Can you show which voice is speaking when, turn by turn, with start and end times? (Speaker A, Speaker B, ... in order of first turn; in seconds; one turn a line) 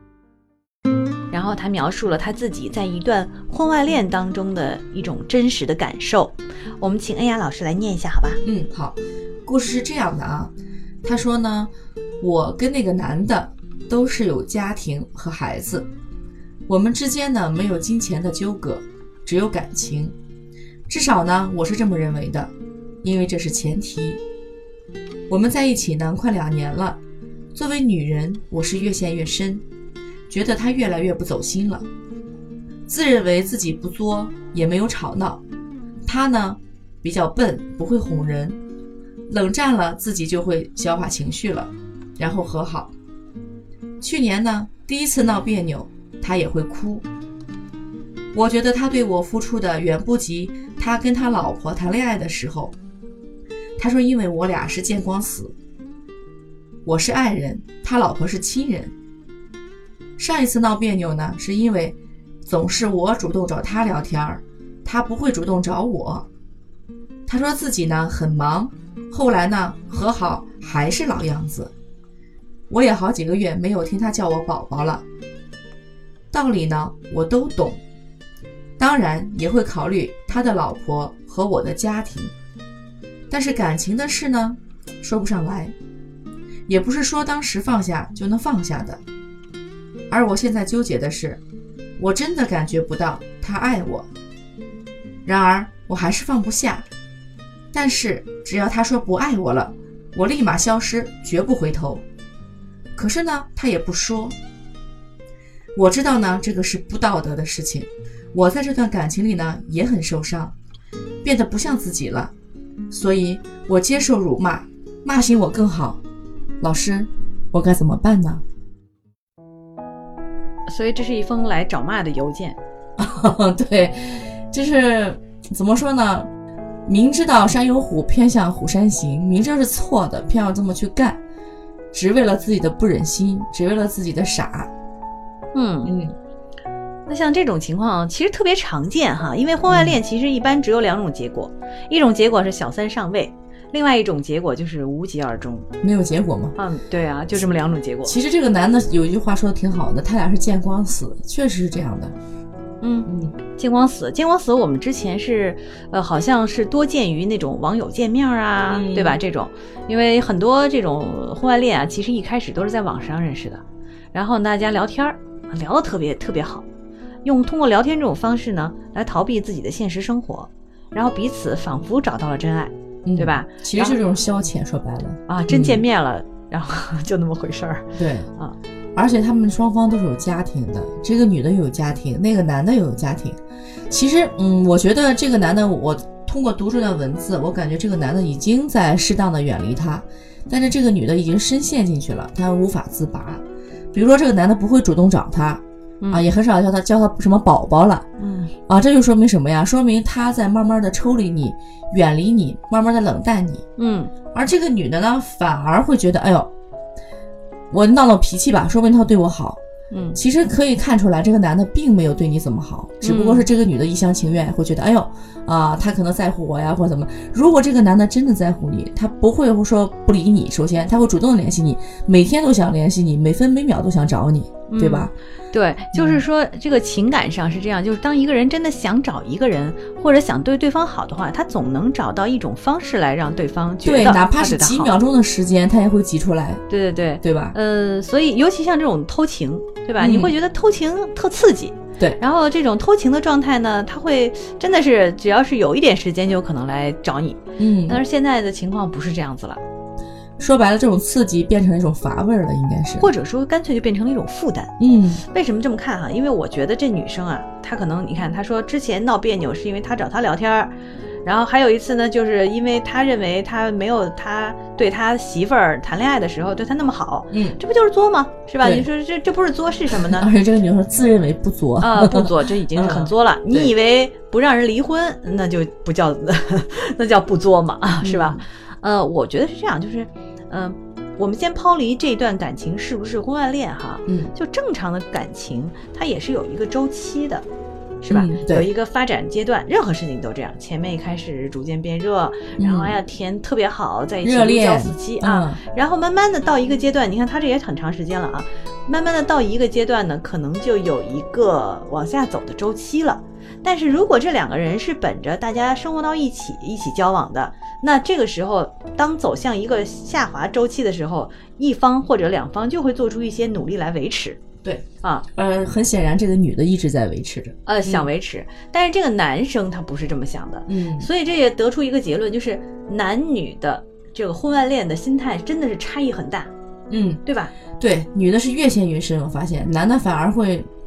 Speaker A: 1.3-8.4
Speaker B: 8.4-10.5
Speaker B: 11.0-15.9
Speaker B: 16.7-20.1
Speaker B: 20.9-22.5
Speaker B: 23.0-24.2
Speaker B: 25.3-27.0
Speaker B: 27.5-29.6
Speaker B: 30.3-31.9
Speaker B: 32.9-35.4
Speaker B: 36.0-38.6
Speaker B: 39.3-42.9
Speaker B: 44.0-47.1
Speaker B: 48.3-52.7
Speaker B: 53.8-55.5
Speaker B: 56.9-58.9
Speaker B: 60.2-66.3
Speaker B: 67.3-71.7
Speaker B: 72.7-75.0
Speaker B: 76.3-77.8
Speaker B: 78.8-82.3
Speaker B: 83.3-85.7
Speaker B: 86.7-89.0
Speaker B: 90.1-91.4
Speaker B: 92.0-94.1
Speaker B: 95.2-96.9
Speaker B: 97.7-102.0
Speaker B: 103.0-104.4
Speaker B: 105.8-110.5
Speaker B: 111.2-112.3
Speaker B: 112.9-116.0
Speaker B: 116.6-118.4
Speaker A: 120.7-122.6
Speaker B: 123.0-126.3
Speaker B: 126.9-131.2
Speaker B: 131.9-134.7
Speaker A: 135.5-135.9
Speaker B: 135.8-136.2
Speaker A: 137.1-145.7
Speaker B: 139.7-140.0
Speaker B: 145.8-146.6
Speaker A: 146.6-148.2
Speaker B: 148.1-152.2
Speaker A: 152.8-163.6
Speaker B: 153.1-153.3
Speaker B: 158.7-159.2
Speaker A: 164.1-166.7
Speaker A: 167.2-174.0
Speaker B: 173.1-175.8
Speaker A: 175.3-178.6
Speaker B: 178.0-178.3
Speaker B: 179.0-183.4
Speaker B: 183.9-198.1
Speaker A: 198.2-198.5
Speaker B: 198.7-203.6
Speaker A: 203.8-204.1
Speaker B: 204.3-206.5
Speaker B: 207.7-209.6
Speaker A: 209.9-210.2
Speaker B: 210.2-225.1
Speaker A: 213.0-213.5
Speaker A: 224.7-235.0
Speaker B: 225.9-226.2
Speaker B: 233.8-236.6
Speaker A: 236.7-249.6
Speaker B: 237.2-237.6
Speaker B: 240.0-240.3
Speaker B: 247.6-248.0
Speaker B: 250.4-253.1
Speaker A: 253.0-260.7
Speaker B: 254.8-255.2
Speaker A: 261.2-270.3
Speaker B: 267.3-267.6
Speaker B: 268.6-268.9
Speaker B: 270.0-273.7
Speaker A: 271.8-287.5
Speaker B: 278.0-278.4
Speaker B: 284.1-284.3
Speaker A: 288.0-314.4
Speaker B: 288.1-288.7
Speaker B: 292.6-293.0
Speaker B: 294.2-295.6
Speaker B: 314.6-318.1
Speaker A: 317.7-326.5
Speaker B: 320.7-321.1
Speaker B: 326.9-327.2
Speaker A: 327.2-327.5
Speaker B: 327.8-330.7